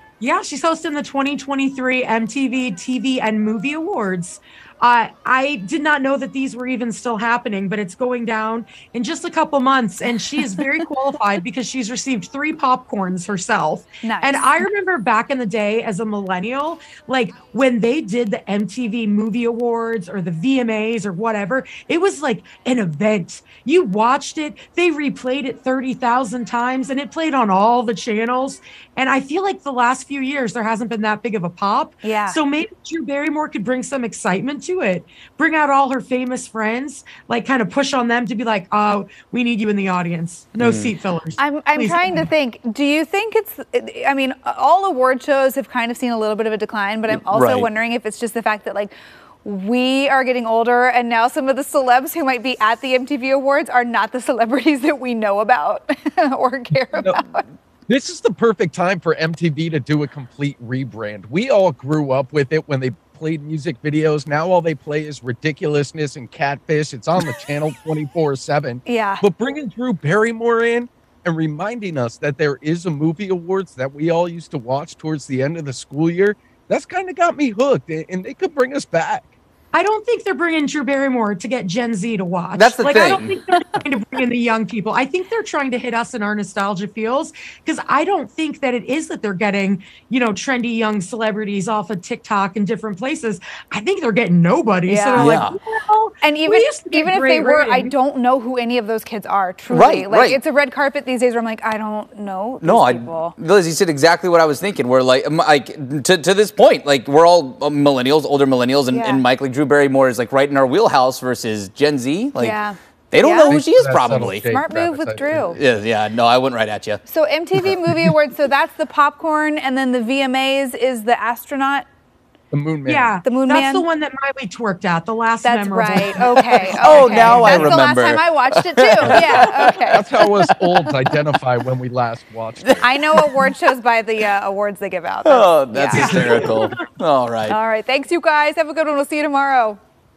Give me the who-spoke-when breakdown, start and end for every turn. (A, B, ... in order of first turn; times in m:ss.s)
0:00.2-0:42.3 A
0:14.0-0:14.5 B
0:32.0-0:32.4 B
0:40.6-0:40.9 C
0:41.4-0:57.4 B
0:47.1-0:47.7 C
0:56.7-0:57.2 D
0:57.9-1:19.3 D
1:08.8-1:09.2 B
1:19.7-1:37.9 A
1:22.5-1:23.4 C
1:34.8-1:35.4 B
1:35.1-1:35.6 C
1:36.2-1:43.3 B
1:39.7-1:40.4 C
1:42.6-1:52.6 C
1:48.9-1:49.2 B
1:52.4-1:53.6 B
1:53.1-1:54.4 C
1:53.5-1:55.6 D
1:54.5-1:55.6 B
1:55.5-1:57.0 C
1:57.1-2:01.8 B
1:57.6-1:58.1 D
2:02.5-2:03.1 D
2:02.9-2:07.8 A
2:03.2-2:03.8 B
2:05.4-2:10.0 B
2:06.6-2:10.9 C
2:09.0-2:12.9 D
2:12.6-2:13.4 C
2:12.8-2:16.5 B
2:15.2-2:17.6 C
2:15.9-2:16.8 A
2:17.5-2:19.8 B